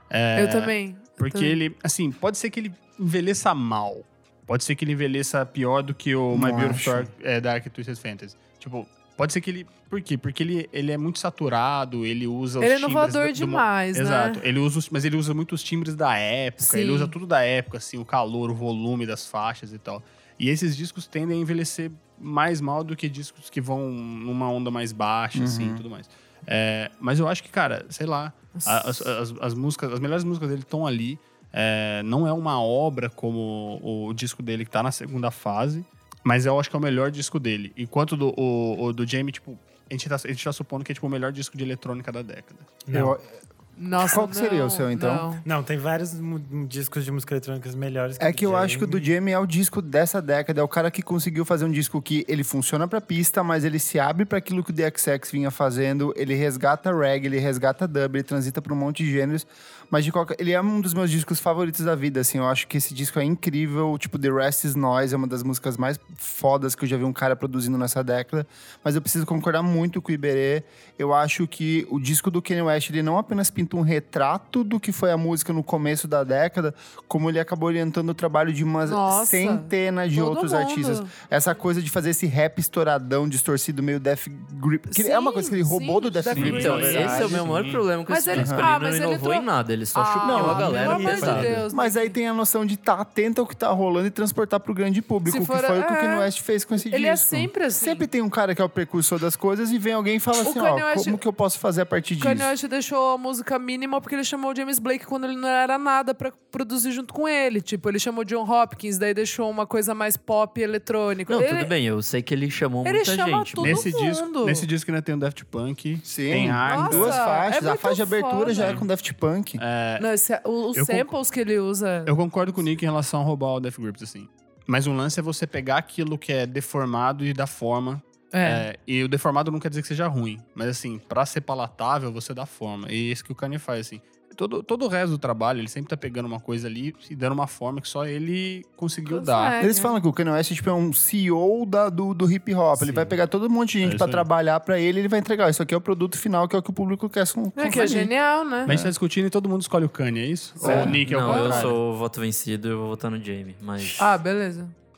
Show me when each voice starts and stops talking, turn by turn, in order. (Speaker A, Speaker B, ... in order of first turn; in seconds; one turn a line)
Speaker A: 0.1-42.8
Speaker B: 0.3-1.6
Speaker C: 6.3-7.1
Speaker B: 12.6-14.4
Speaker B: 16.6-17.1
Speaker C: 25.4-25.8
Speaker B: 28.6-29.1
Speaker D: 42.9-43.2
Speaker C: 42.9-43.2
Speaker B: 43.8-45.4
Speaker C: 44.0-45.3
Speaker D: 45.4-49.1
Speaker C: 48.2-87.4
Speaker B: 78.9-81.1
Speaker B: 84.9-87.4
Speaker A: 86.3-87.9
Speaker E: 86.4-91.6
Speaker B: 88.1-92.2
Speaker C: 88.3-88.7
Speaker C: 90.2-90.9
Speaker D: 90.7-91.7
Speaker A: 91.2-91.6
Speaker C: 91.7-102.5
Speaker B: 95.3-96.3
Speaker B: 96.8-98.1
Speaker B: 100.4-101.2
Speaker B: 102.2-111.7
Speaker E: 111.3-113.9
Speaker B: 112.8-114.7
Speaker A: 113.6-117.2
Speaker C: 116.0-119.6
Speaker B: 116.4-118.8
Speaker A: 118.6-118.9
Speaker A: 119.6-120.1
Speaker B: 120.0-122.2
Speaker A: 120.7-121.1
Speaker A: 122.0-139.6
Speaker B: 128.3-128.7
Speaker B: 139.1-139.9
Speaker C: 139.6-148.1
Speaker A: 143.8-144.3
Speaker B: 147.6-148.7
Speaker A: 148.6-151.8
Speaker C: 148.7-148.9
Speaker C: 150.6-151.0
Speaker B: 150.6-151.7
Speaker E: 150.7-154.1
Speaker B: 154.0-154.7